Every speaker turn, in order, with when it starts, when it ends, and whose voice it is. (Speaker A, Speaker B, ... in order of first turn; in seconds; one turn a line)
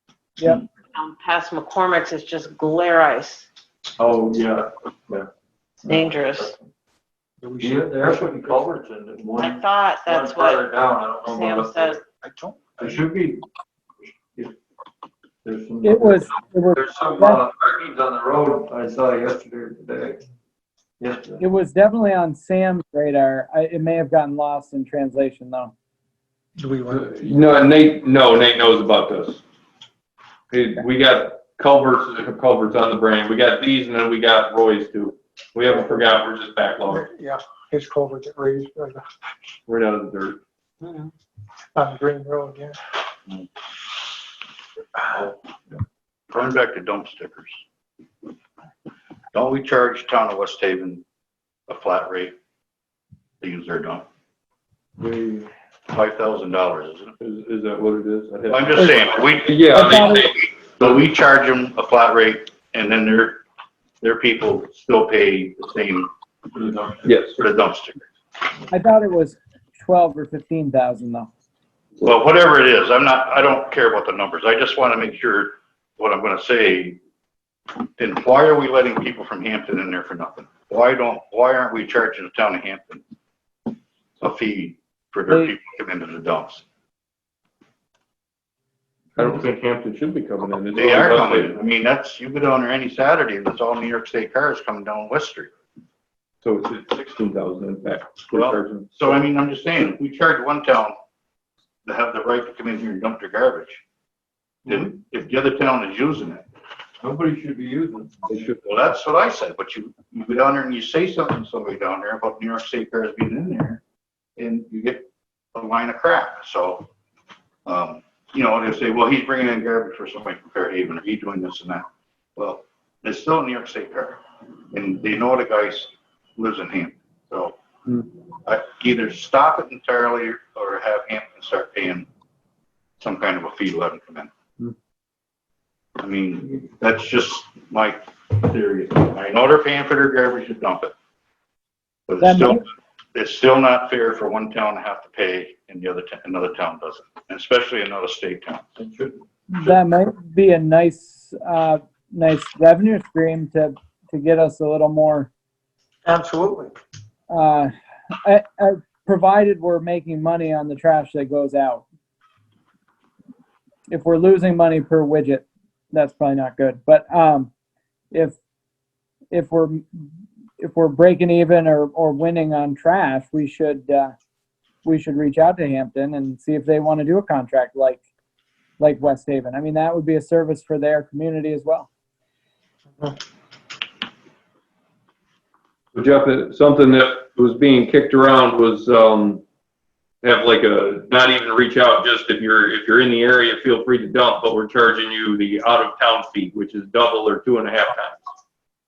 Speaker A: 0.4-0.6
Speaker B: 0.9-3.5
Speaker C: 4.0-5.3
Speaker C: 5.8-6.7
Speaker B: 5.9-6.5
Speaker D: 7.4-8.7
Speaker C: 7.6-12.0
Speaker B: 9.4-10.7
Speaker B: 11.2-12.0
Speaker D: 12.2-13.1
Speaker C: 12.8-13.4
Speaker C: 15.4-20.2
Speaker A: 15.8-17.4
Speaker C: 21.0-21.4
Speaker A: 21.4-25.7
Speaker D: 26.6-27.1
Speaker E: 26.9-29.4
Speaker E: 30.5-37.1
Speaker D: 35.7-36.1
Speaker D: 36.9-39.0
Speaker E: 39.7-40.4
Speaker D: 40.8-41.1
Speaker D: 41.8-42.8
Speaker F: 46.3-47.6
Speaker F: 49.3-51.0
Speaker F: 51.7-52.3
Speaker F: 53.4-54.0
Speaker C: 55.0-55.5
Speaker F: 55.9-57.1
Speaker E: 57.2-60.9
Speaker F: 58.5-63.4
Speaker A: 59.7-60.3
Speaker F: 64.0-66.1
Speaker C: 66.5-67.1
Speaker E: 67.0-67.4
Speaker F: 67.4-68.0
Speaker A: 68.7-71.3
Speaker F: 72.0-77.0
Speaker F: 78.0-83.0
Speaker F: 84.2-86.6
Speaker E: 89.2-91.5
Speaker F: 90.7-95.5
Speaker E: 96.4-99.2
Speaker F: 98.3-101.0
Speaker F: 101.8-103.8
Speaker F: 104.7-106.4
Speaker C: 107.0-108.2
Speaker E: 108.3-108.6
Speaker F: 108.3-113.8
Speaker F: 114.4-116.9
Speaker F: 117.7-127.6
Speaker F: 128.4-132.1
Speaker F: 133.0-134.3
Speaker F: 136.0-140.9
Speaker F: 142.1-148.7
Speaker A: 142.2-142.6
Speaker C: 148.8-149.2
Speaker A: 149.5-155.3
Speaker D: 156.1-156.7
Speaker A: 157.3-157.7
Speaker A: 158.2-161.9
Speaker A: 163.9-167.5
Speaker A: 168.1-168.4
Speaker A: 169.3-170.1
Speaker A: 170.6-174.2
Speaker A: 174.8-178.0
Speaker A: 178.8-181.9
Speaker E: 185.9-189.4
Speaker E: 190.2-198.2